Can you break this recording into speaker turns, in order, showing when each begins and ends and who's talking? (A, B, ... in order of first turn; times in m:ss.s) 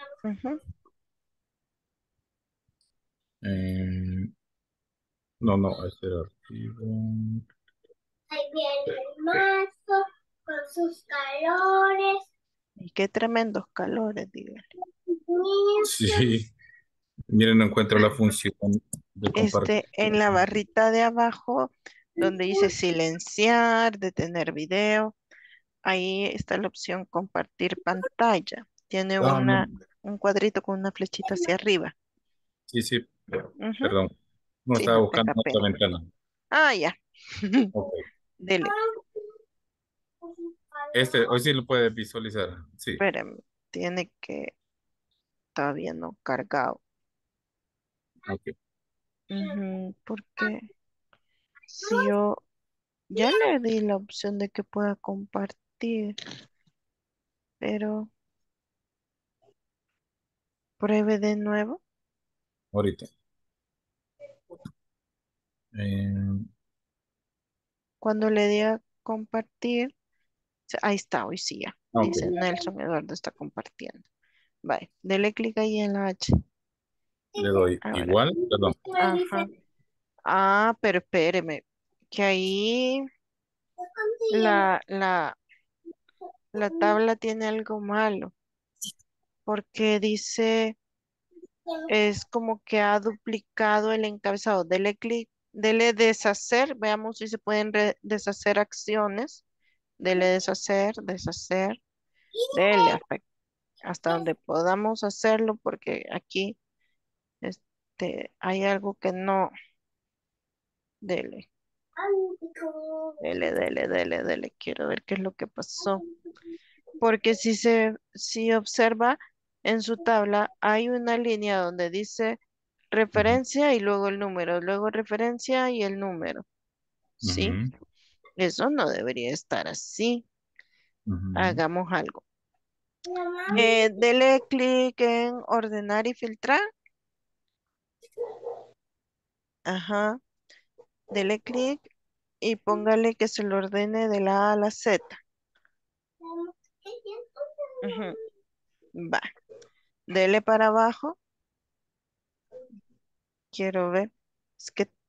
0:00.2-0:00.6 A
0:03.4-0:04.3 B
0:05.4-0:07.4 B
0:08.3-0:12.2 C
0:12.8-0:14.6 A
0:15.1-0:16.2 C
0:15.9-0:16.5 B
0:17.3-0:20.4 B
0:19.3-0:25.1 A
0:22.2-0:22.7 C
0:25.8-0:31.9 A
0:29.2-0:29.7 B
0:31.2-0:31.5 C
0:32.7-0:34.1 B
0:33.6-0:33.9 A
0:34.6-0:36.1 B
0:34.8-0:35.7 A
0:36.5-0:37.7 A
0:37.7-0:38.0 B
0:38.4-0:38.7 A
0:40.2-0:41.3 C
0:41.0-0:43.0 B
0:43.0-0:44.5 A
0:45.5-0:46.8 A
0:48.3-0:48.5 B
0:49.3-0:50.6 A
0:51.7-0:52.1 C
0:51.8-0:52.4 A
0:53.1-0:56.1 A
0:57.6-0:58.1 A
1:00.8-1:01.8 A
1:02.7-1:03.1 B
1:05.7-1:06.5 B
1:08.0-1:09.9 A
1:10.7-1:14.0 A
1:11.9-1:12.3 B
1:12.0-1:12.7 C
1:14.6-1:16.3 A
1:17.4-1:17.8 C
1:17.4-1:18.8 B
1:17.8-1:18.2 A
1:18.3-1:19.4 C
1:19.0-1:19.4 A
1:20.3-1:23.0 A
1:23.8-1:24.6 C
1:24.3-1:25.4 A
1:26.5-1:28.3 A
1:26.6-1:27.0 C
1:29.4-1:30.7 A
1:31.7-1:32.1 C
1:31.9-1:39.4 A
1:40.0-1:41.8 A
1:42.3-1:43.0 C
1:42.5-1:43.2 A
1:43.8-1:46.6 A
1:47.4-1:49.5 A
1:51.0-1:51.5 A
1:52.0-1:53.5 C
1:53.2-1:56.0 A
1:55.8-1:56.1 C
1:57.0-2:02.4 A
2:02.9-2:06.4 A
2:07.2-2:07.6 A
2:07.2-2:07.7 B
2:08.4-2:10.2 A
2:11.1-2:11.6 B
2:11.3-2:12.2 A
2:13.0-2:13.9 C
2:13.5-2:16.6 A
2:19.6-2:20.2 A
2:21.1-2:21.8 A
2:22.4-2:25.2 A
2:26.2-2:28.2 C
2:27.8-2:28.1 A
2:29.0-2:29.3 A
2:30.1-2:31.2 A
2:33.5-2:34.9 A